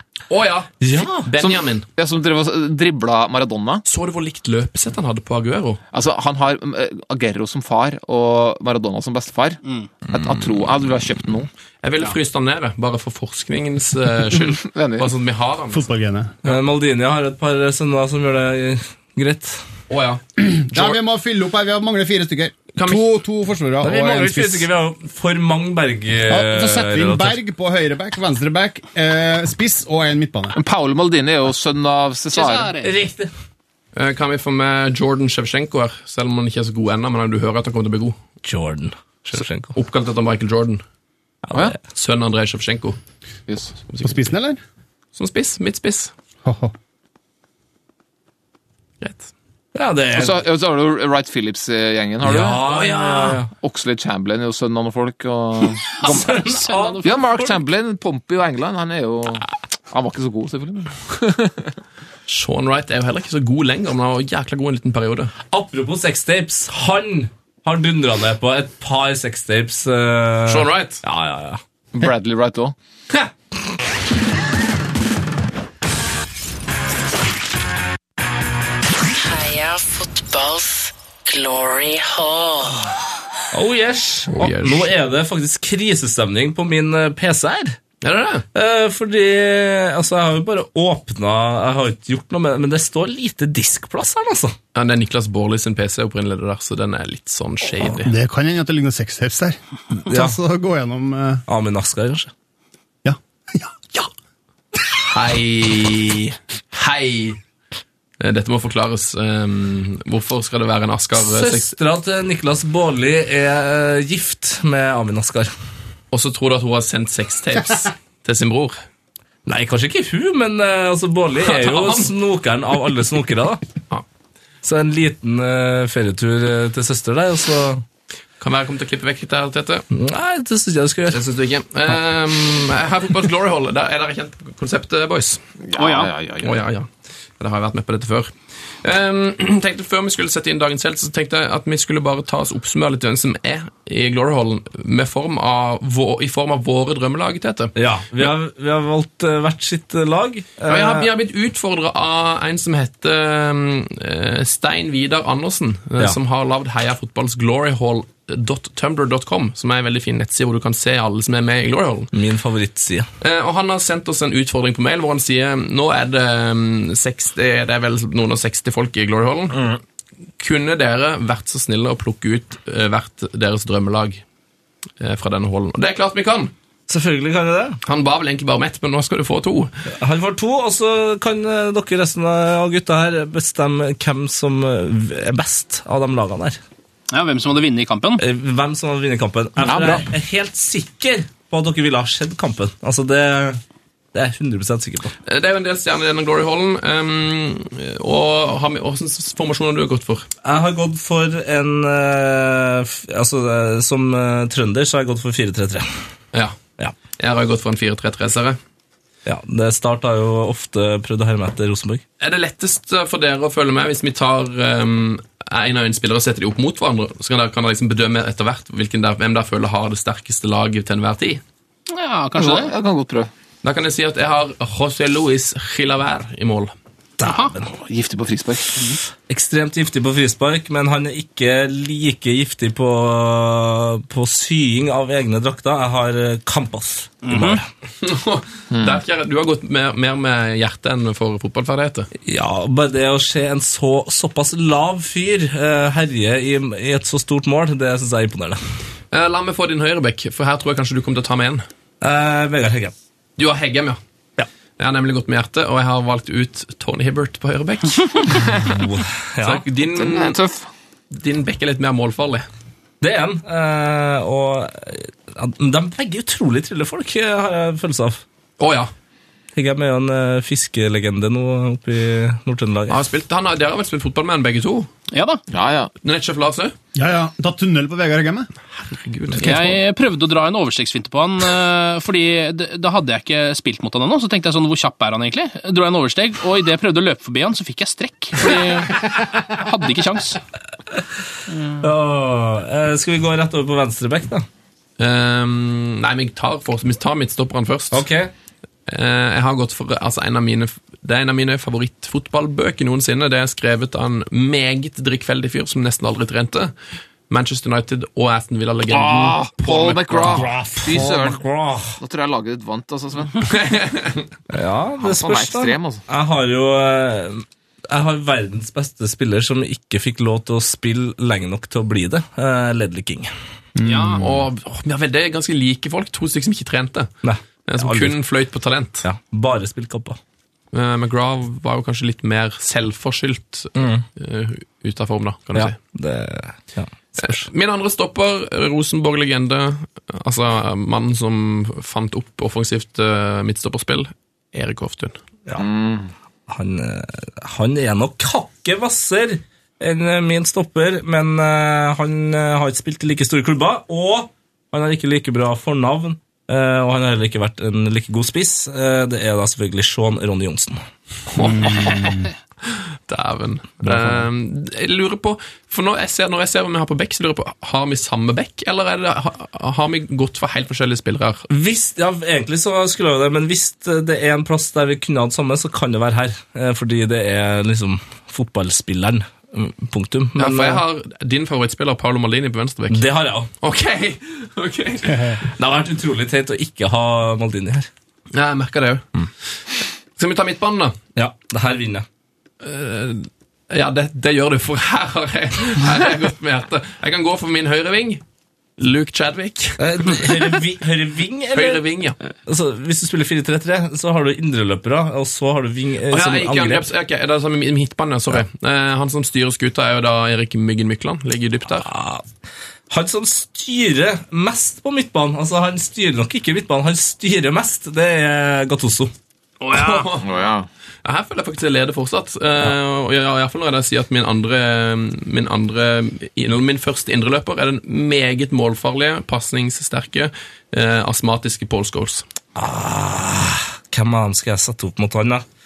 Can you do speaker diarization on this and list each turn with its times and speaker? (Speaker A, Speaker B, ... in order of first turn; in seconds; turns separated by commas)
Speaker A: 0.3-1.9, Speaker B: 0.8-1.3, Speaker C: 1.4-3.8, Speaker A: 3.9-5.8, Speaker C: 5.9-11.5, Speaker A: 11.8-15.9, Speaker C: 14.6-15.1, Speaker D: 15.7-16.3, Speaker B: 16.4-19.6, Speaker A: 19.9-21.0, Speaker D: 20.4-24.7, Speaker A: 22.8-23.0, Speaker B: 23.8-27.4, Speaker D: 26.3-30.6, Speaker C: 30.5-32.7, Speaker E: 32.3-32.9, Speaker B: 32.8-33.3, Speaker A: 33.9-38.2, Speaker B: 38.4-39.7, Speaker A: 39.4-40.8, Speaker B: 41.5-41.7, Speaker A: 41.8-43.0, Speaker C: 43.5-43.7, Speaker A: 43.9-44.2, Speaker D: 44.0-44.6, Speaker A: 45.1-46.1, Speaker D: 46.4-46.7, Speaker A: 49.0-49.3, Speaker B: 49.7-50.4, Speaker C: 50.1-52.8, Speaker B: 52.2-53.5, Speaker A: 52.8-53.4, Speaker C: 53.5-56.4, Speaker E: 55.9-57.2, Speaker B: 56.0-57.5, Speaker C: 57.0-61.7, Speaker A: 62.3-65.3, Speaker B: 65.5-71.6, Speaker A: 70.5-71.0, Speaker C: 71.9-72.7, Speaker F: 79.1-82.9, Speaker B: 83.5-87.8, Speaker A: 84.3-84.9, Speaker A: 88.0-88.4, Speaker B: 88.5-94.5, Speaker A: 94.7-98.1, Speaker D: 98.0-101.4, Speaker B: 100.1-100.4, Speaker B: 101.5-102.3, Speaker D: 103.0-104.1, Speaker A: 105.0-107.4, Speaker A: 108.2-111.7, Speaker B: 111.2-115.5, Speaker A: 116.1-118.8, Speaker B: 119.5-123.6, Speaker A: 121.4-122.1, Speaker B: 124.6-127.8, Speaker A: 128.4-129.8, Speaker B: 129.9-131.3, Speaker A: 131.1-135.4, Speaker C: 135.6-136.6, Speaker E: 135.8-136.1, Speaker A: 136.4-147.7, Speaker B: 147.8-151.1, Speaker A: 150.7-162.1, Speaker B: 162.1-163.1, Speaker A: 163.2-169.6, Speaker A: 170.4-174.2, Speaker A: 175.0-176.5, Speaker B: 176.9-177.8, Speaker A: 177.8-179.7, Speaker B: 180.0-186.6, Speaker E: 187.1-188.2, Speaker B: 188.2-193.6, Speaker C: 189.6-190.1, Speaker B: 194.1-195.1, Speaker A: 195.2-200.3, Speaker B: 200.4-205.9, Speaker A: 206.3-206.6, Speaker A: 207.2-208.6, Speaker B: 209.2-212.0, Speaker A: 212.2-221.4, Speaker E: 221.9-222.7, Speaker C: 222.4-223.3, Speaker A: 223.6-226.7, Speaker B: 227.2-227.7, Speaker E: 227.2-227.5, Speaker C: 227.7-228.8, Speaker B: 229.3-237.6, Speaker E: 237.2-237.6, Speaker A: 238.0-242.1, Speaker C: 238.7-239.0, Speaker B: 242.2-248.6, Speaker A: 249.1-251.6, Speaker B: 252.0-252.9, Speaker A: 253.4-254.0, Speaker A: 254.8-258.5, Speaker B: 258.4-259.6, Speaker A: 259.4-260.4, Speaker C: 259.9-260.7, Speaker A: 261.1-262.4, Speaker B: 263.0-268.2, Speaker A: 268.6-268.9, Speaker B: 269.5-273.0, Speaker A: 272.9-274.9, Speaker E: 275.1-275.4, Speaker C: 275.5-275.9, Speaker A: 276.0-276.7, Speaker D: 276.9-278.5, Speaker A: 278.8-279.8, Speaker E: 279.4-290.4, Speaker E: 291.5-291.8, Speaker B: 291.8-294.4, Speaker A: 295.0-298.0, Speaker B: 297.9-298.3, Speaker A: 298.9-306.7, Speaker A: 307.3-310.5, Speaker C: 308.9-311.4, Speaker B: 310.2-312.0, Speaker C: 312.0-313.8, Speaker A: 313.5-314.2, Speaker B: 314.5-323.3, Speaker C: 315.0-316.0, Speaker D: 323.8-324.2, Speaker E: 323.8-324.3, Speaker A: 324.2-327.1, Speaker B: 327.2-328.2, Speaker A: 327.7-329.1, Speaker B: 329.0-330.2, Speaker A: 330.7-335.8, Speaker B: 333.8-334.1, Speaker B: 335.5-337.4, Speaker A: 337.2-345.2, Speaker C: 345.6-346.1, Speaker B: 346.5-360.8, Speaker A: 361.3-362.3, Speaker D: 361.6-362.1, Speaker A: 363.1-371.4, Speaker B: 371.5-380.8, Speaker A: 380.4-383.1, Speaker B: 382.9-383.5, Speaker A: 383.6-385.4, Speaker B: 385.4-387.9, Speaker A: 388.3-389.1, Speaker A: 390.1-390.9, Speaker B: 391.1-392.0, Speaker A: 392.6-398.2, Speaker A: 398.8-400.3, Speaker B: 399.8-401.8, Speaker A: 401.5-402.1, Speaker B: 402.5-406.9, Speaker A: 406.1-411.9, Speaker B: 411.8-412.2, Speaker B: 412.9-419.1, Speaker A: 419.7-420.3, Speaker C: 420.2-420.7, Speaker A: 421.0-432.2, Speaker B: 432.6-435.4